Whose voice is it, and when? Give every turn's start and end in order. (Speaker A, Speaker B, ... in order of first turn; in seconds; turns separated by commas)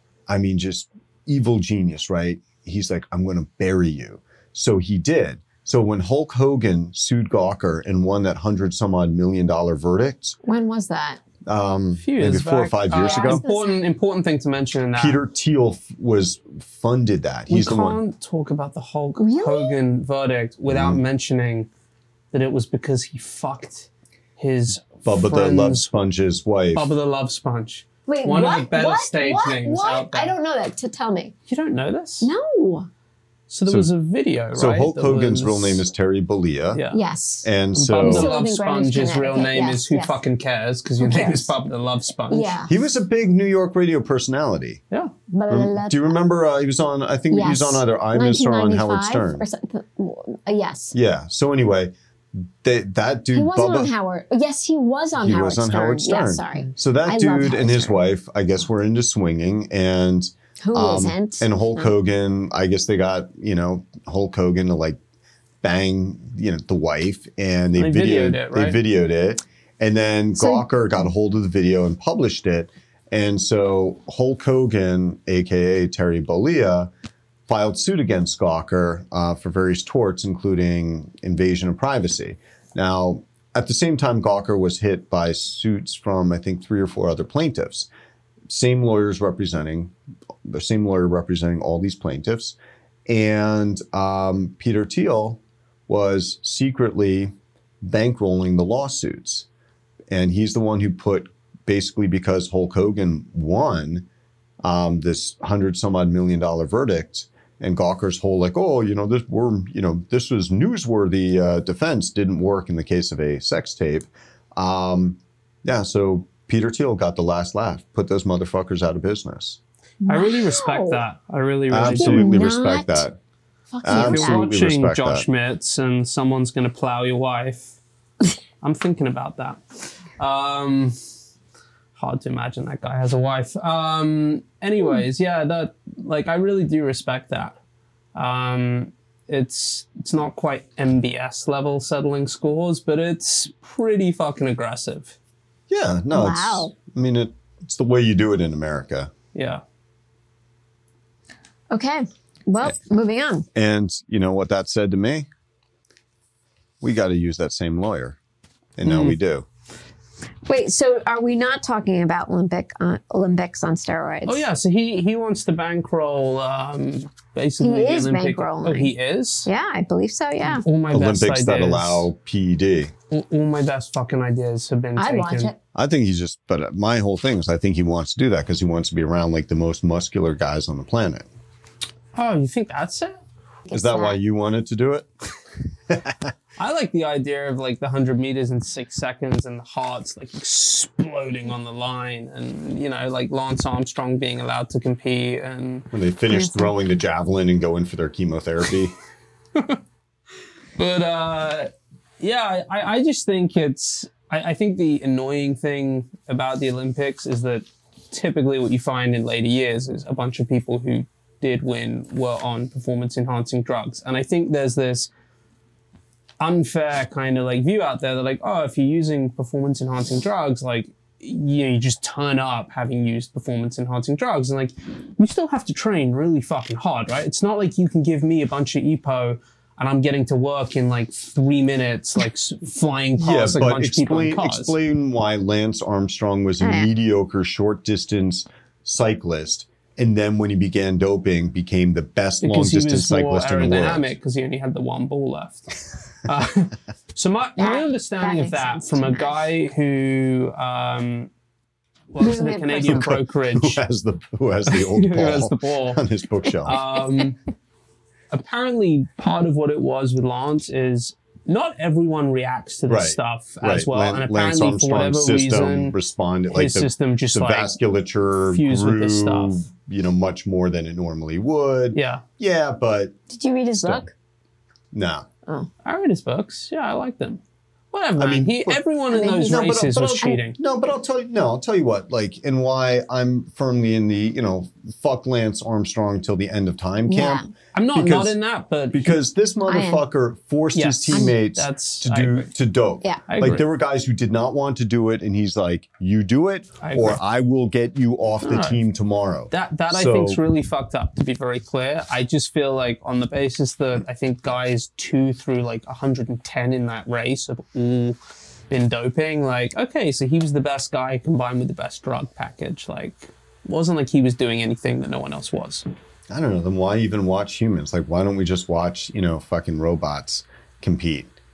Speaker A: 0.3-10.4, Speaker B: 10.4-11.2, Speaker A: 11.4-13.4, Speaker C: 12.0-15.2, Speaker B: 12.9-13.8, Speaker A: 14.9-18.0, Speaker C: 17.5-21.7, Speaker B: 19.2-19.8, Speaker A: 20.7-21.0, Speaker C: 22.3-25.9, Speaker A: 25.0-26.9, Speaker C: 26.7-30.3, Speaker B: 28.1-31.3, Speaker C: 31.5-32.3, Speaker B: 32.2-32.9, Speaker C: 33.5-35.9, Speaker A: 34.5-36.8, Speaker C: 36.7-37.0, Speaker B: 36.9-40.2, Speaker A: 37.4-38.3, Speaker C: 37.7-42.6, Speaker B: 41.0-41.5, Speaker B: 42.3-42.7, Speaker A: 42.7-44.8, Speaker B: 45.3-46.2, Speaker A: 45.5-49.4, Speaker B: 47.3-51.0, Speaker A: 50.9-53.9, Speaker B: 53.3-58.0, Speaker A: 55.2-65.0, Speaker B: 60.6-61.9, Speaker A: 65.6-76.9, Speaker C: 67.8-68.8, Speaker B: 70.4-70.7, Speaker A: 77.5-87.9, Speaker A: 88.5-89.9, Speaker A: 90.5-92.6, Speaker A: 93.1-99.5, Speaker A: 100.1-104.1, Speaker A: 104.6-119.6, Speaker B: 120.0-121.0, Speaker C: 120.1-122.4, Speaker A: 121.7-123.2, Speaker B: 121.8-123.1, Speaker B: 123.7-124.5, Speaker A: 123.8-125.2, Speaker C: 123.9-127.7, Speaker C: 128.6-131.0, Speaker C: 132.0-137.6, Speaker C: 138.2-145.2, Speaker A: 145.7-149.1, Speaker B: 146.1-146.7, Speaker C: 149.3-149.6, Speaker B: 151.7-153.5, Speaker A: 153.6-155.3, Speaker A: 156.8-158.2, Speaker A: 158.8-159.5, Speaker C: 158.9-159.1, Speaker B: 160.5-164.4, Speaker C: 164.3-169.5, Speaker B: 167.6-168.9, Speaker B: 169.4-170.6, Speaker C: 170.4-172.1, Speaker A: 170.9-172.9, Speaker C: 173.1-175.5, Speaker B: 175.0-175.6, Speaker A: 175.8-181.3, Speaker C: 182.2-183.2, Speaker B: 183.7-184.2, Speaker A: 183.7-185.1, Speaker A: 185.9-186.3, Speaker C: 186.6-195.9, Speaker A: 195.9-198.9, Speaker B: 196.3-196.7, Speaker C: 200.8-215.1, Speaker C: 216.4-234.7, Speaker A: 233.2-244.1, Speaker B: 236.6-236.9, Speaker C: 242.4-251.3, Speaker B: 247.6-249.4, Speaker C: 252.1-253.8, Speaker B: 252.2-253.1, Speaker A: 252.8-256.8, Speaker C: 254.7-256.0, Speaker C: 256.6-257.4, Speaker C: 258.3-266.0, Speaker A: 262.9-273.1, Speaker C: 266.5-267.8, Speaker C: 268.5-269.6, Speaker C: 271.9-272.2, Speaker B: 273.3-274.1, Speaker A: 273.8-274.1, Speaker A: 274.9-275.3, Speaker C: 275.8-277.4, Speaker C: 277.9-280.6, Speaker A: 278.2-278.8, Speaker B: 279.1-279.7, Speaker A: 279.3-287.4, Speaker B: 287.1-287.5, Speaker C: 287.7-289.2, Speaker A: 287.9-288.4, Speaker A: 288.9-300.4, Speaker B: 289.7-290.0, Speaker C: 290.8-292.5, Speaker C: 293.3-293.6, Speaker C: 296.8-297.2, Speaker C: 298.4-298.8, Speaker C: 299.5-308.2, Speaker C: 308.7-315.9, Speaker A: 316.3-321.3